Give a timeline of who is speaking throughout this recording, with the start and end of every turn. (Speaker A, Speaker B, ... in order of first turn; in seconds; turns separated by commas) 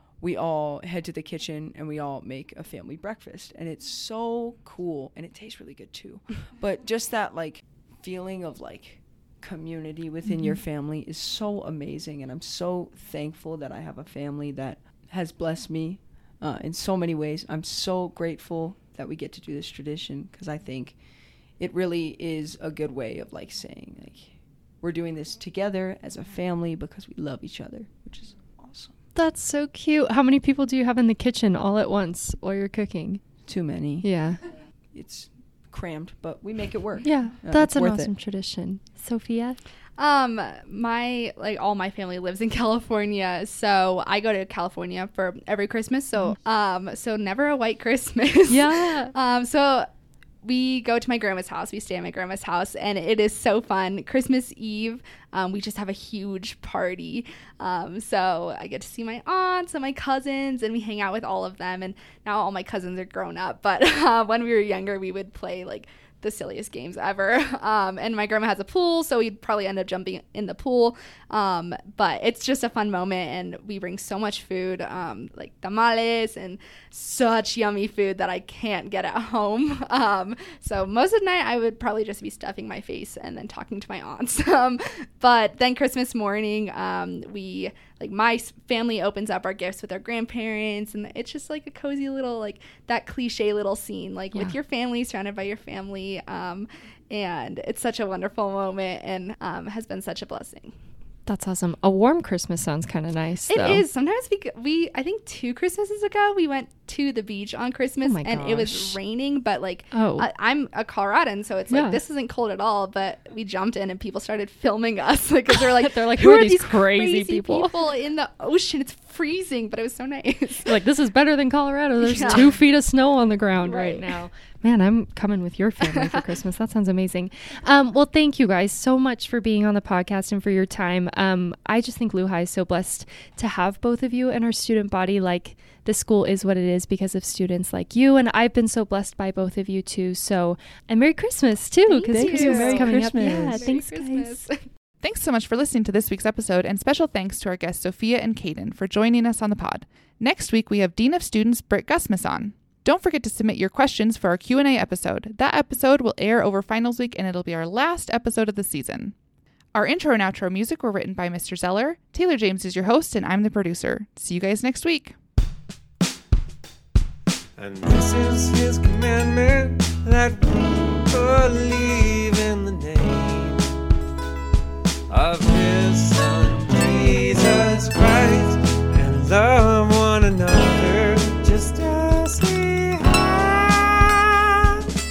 Speaker A: 0.2-21.0, Speaker B: 10.2-10.6, Speaker A: 21.6-28.9, Speaker B: 29.1-33.2, Speaker A: 33.5-34.1, Speaker B: 34.0-34.4, Speaker A: 34.9-38.1, Speaker B: 37.0-39.6, Speaker C: 40.0-49.9, Speaker B: 48.5-49.1, Speaker C: 50.4-100.7, Speaker B: 101.3-103.8, Speaker C: 103.5-120.7, Speaker B: 108.0-109.0, Speaker B: 109.9-110.3, Speaker B: 111.7-112.0, Speaker B: 115.5-117.7, Speaker B: 120.6-144.4, Speaker C: 122.0-122.6, Speaker C: 123.6-124.1, Speaker C: 125.8-126.2, Speaker C: 141.9-144.6, Speaker A: 142.1-143.7, Speaker D: 145.0-159.1, Speaker D: 159.7-165.2, Speaker E: 167.6-173.6, Speaker E: 175.1-184.6